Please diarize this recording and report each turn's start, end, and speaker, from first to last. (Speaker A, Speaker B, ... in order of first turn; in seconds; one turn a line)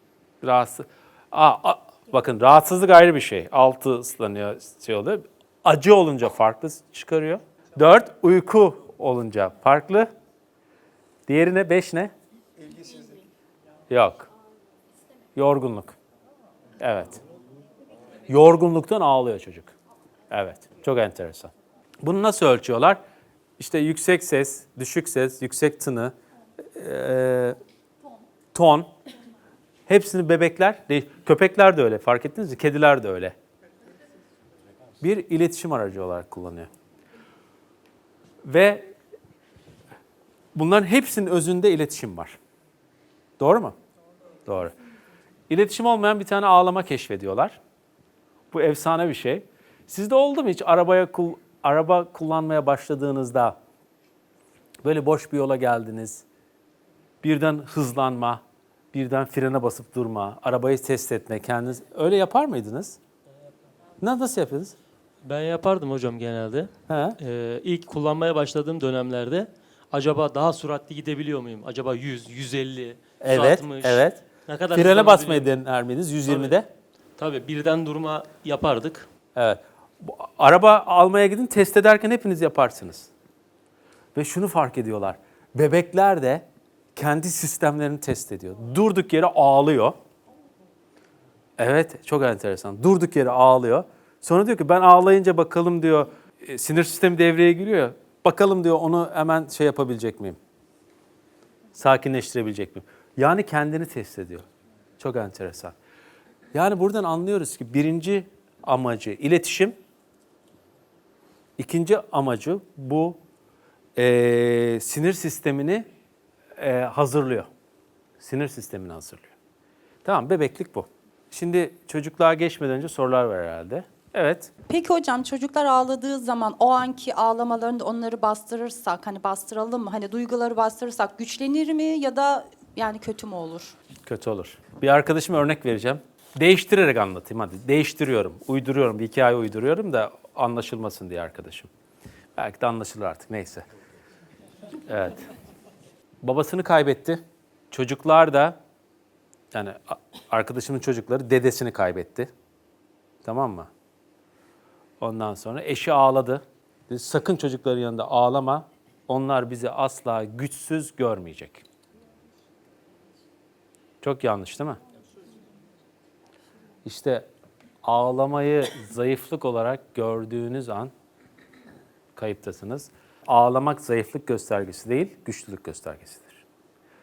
Speaker A: 0.4-10.1
Speaker A: 11.3-12.1
Speaker A: 13.9-14.3
Speaker A: 15.3-15.9
Speaker A: 16.8-17.2
Speaker A: 18.3-19.7
Speaker A: 20.3-23.0
Speaker A: 23.6-26.1
Speaker A: 26.7-27.6
Speaker A: 28.5-28.9
Speaker A: 29.9-33.3
Speaker A: 35.0-36.7
Speaker A: 38.4-38.9
Speaker A: 40.5-42.4
Speaker A: 43.4-43.8
Speaker A: 44.5-44.7
Speaker A: 45.5-47.6
Speaker A: 48.5-53.5
Speaker A: 54.8-56.2
Speaker A: 57.2-58.4
Speaker A: 58.9-63.0
Speaker A: 64.0-64.7
Speaker B: 65.2-75.5
Speaker A: 66.9-67.2
Speaker A: 73.2-74.2
Speaker A: 74.7-76.7
Speaker B: 76.2-76.5
Speaker B: 77.2-79.1
Speaker A: 79.3-83.1
Speaker A: 84.1-86.4
Speaker A: 86.9-90.0
Speaker A: 91.6-100.4
Speaker A: 101.7-104.4
Speaker A: 105.0-105.7
Speaker A: 106.5-109.7
Speaker A: 111.6-113.2
Speaker A: 114.0-115.8
Speaker A: 116.6-117.5
Speaker A: 118.2-119.3
Speaker A: 120.0-124.5
Speaker C: 124.7-133.7
Speaker A: 134.1-141.7
Speaker A: 142.4-143.7
Speaker A: 144.9-145.2
Speaker A: 146.2-148.6
Speaker A: 149.5-152.3
Speaker A: 153.2-153.7
Speaker A: 155.0-161.6
Speaker A: 164.0-164.8
Speaker A: 166.8-167.3
Speaker A: 167.8-170.9
Speaker A: 172.1-176.4